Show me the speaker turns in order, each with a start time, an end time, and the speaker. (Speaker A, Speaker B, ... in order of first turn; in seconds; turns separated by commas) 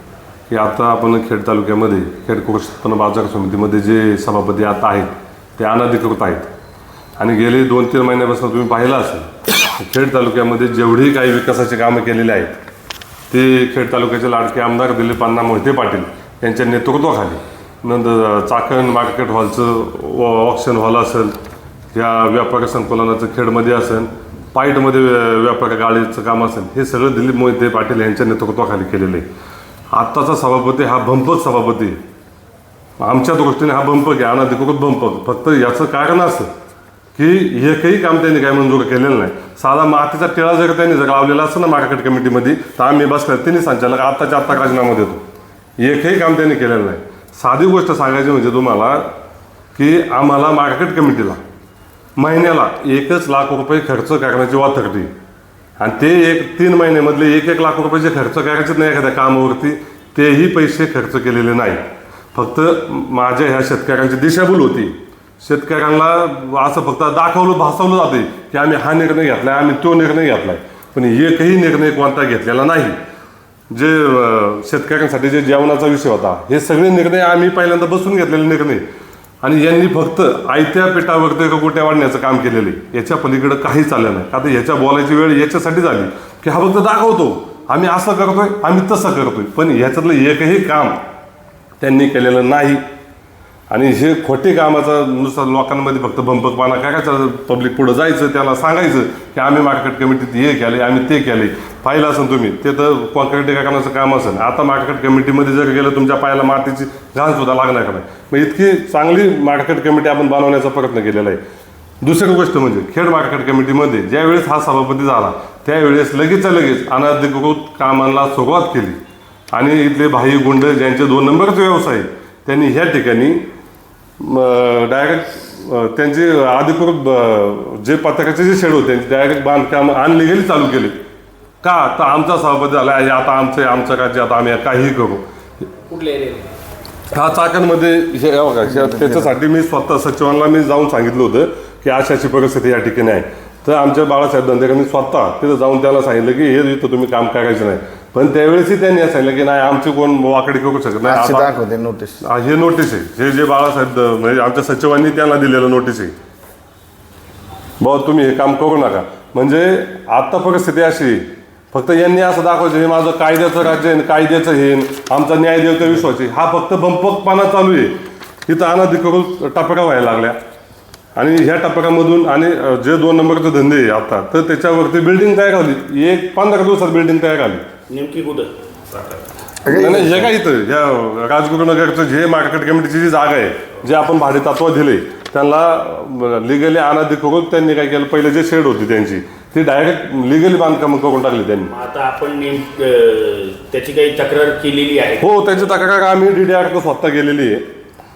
Speaker A: 0.5-6.5, Speaker A: 7.2-12.6, Speaker A: 13.3-21.4, Speaker A: 21.9-29.2, Speaker A: 29.9-32.0, Speaker A: 33.0-36.5, Speaker A: 37.2-45.2, Speaker A: 45.8-49.1, Speaker A: 49.8-51.4, Speaker A: 52.2-55.1, Speaker A: 55.8-73.0, Speaker A: 73.7-78.8, Speaker A: 79.4-91.0, Speaker A: 91.8-92.8, Speaker A: 93.7-111.4, Speaker A: 112.0-119.0, Speaker A: 119.5-123.4, Speaker A: 124.2-131.0, Speaker A: 131.6-135.9, Speaker B: 136.0-136.4, Speaker A: 137.1-151.6, Speaker C: 138.8-139.3, Speaker C: 151.0-152.2, Speaker A: 152.2-156.1, Speaker A: 157.8-167.9, Speaker A: 168.5-170.4, Speaker A: 171.2-177.7, Speaker B: 177.9-179.2, Speaker C: 179.7-180.3, Speaker A: 179.7-191.7, Speaker B: 191.7-195.5, Speaker A: 195.2-197.7